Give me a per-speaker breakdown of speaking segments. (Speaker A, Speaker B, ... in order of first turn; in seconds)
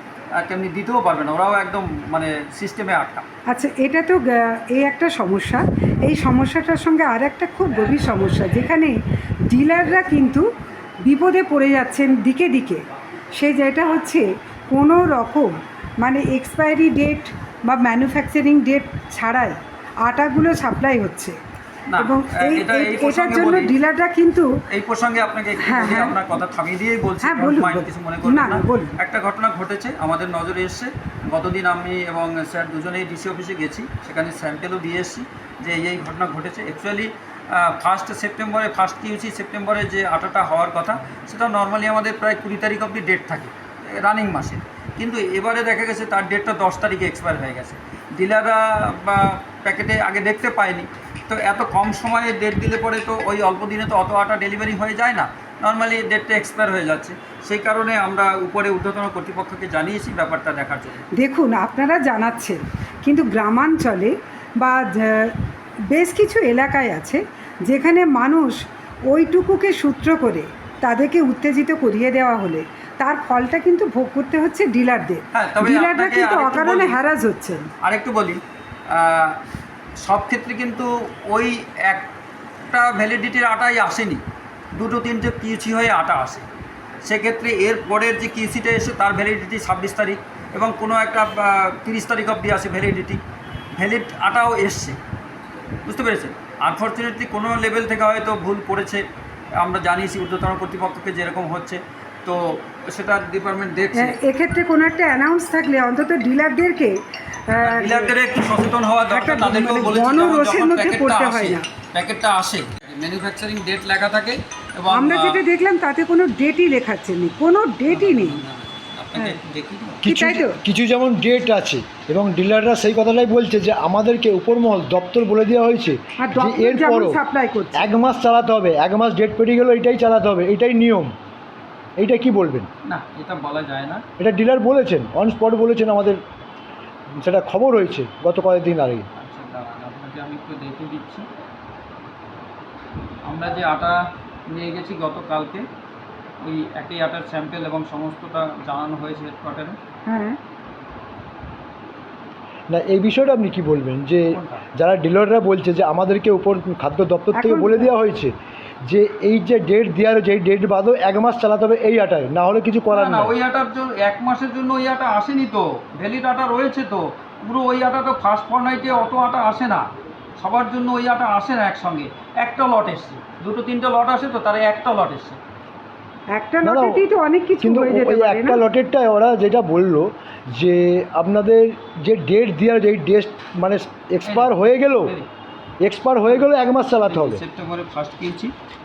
Speaker A: 0.4-3.3, 21.9-23.7, 24.7-61.0, 75.3-77.0, 77.8-78.4, 79.0-79.3, 80.1-82.1, 82.7-84.2, 84.8-86.5, 87.1-93.2, 93.8-95.0, 95.9-99.0, 99.6-104.2, 107.6-115.4, 117.9-120.0, 132.9-134.0, 139.2-141.3, 143.3-144.0, 144.5-145.7, 146.4-149.8, 154.3-154.7, 162.9-169.9, 170.4-175.4, 184.2-185.3, 187.1-188.5
Speaker B: 3.5-8.9, 9.5-10.4, 11.1-12.8, 13.4-21.4, 22.0-24.5, 25.6-26.2, 27.2-29.0, 61.2-65.3, 65.9-77.7, 104.0-107.0, 107.5-108.1, 109.1-111.7, 114.9-118.4, 120.0-120.6, 126.2-127.9, 150.1-150.4, 157.3-157.9, 176.3-178.6
Speaker C: 120.0-127.2, 127.8-131.1, 132.0-132.7, 134.2-136.2, 137.2-139.1, 152.7-158.3, 158.8-163.3, 176.6-177.0, 177.6-185.2, 185.8-187.4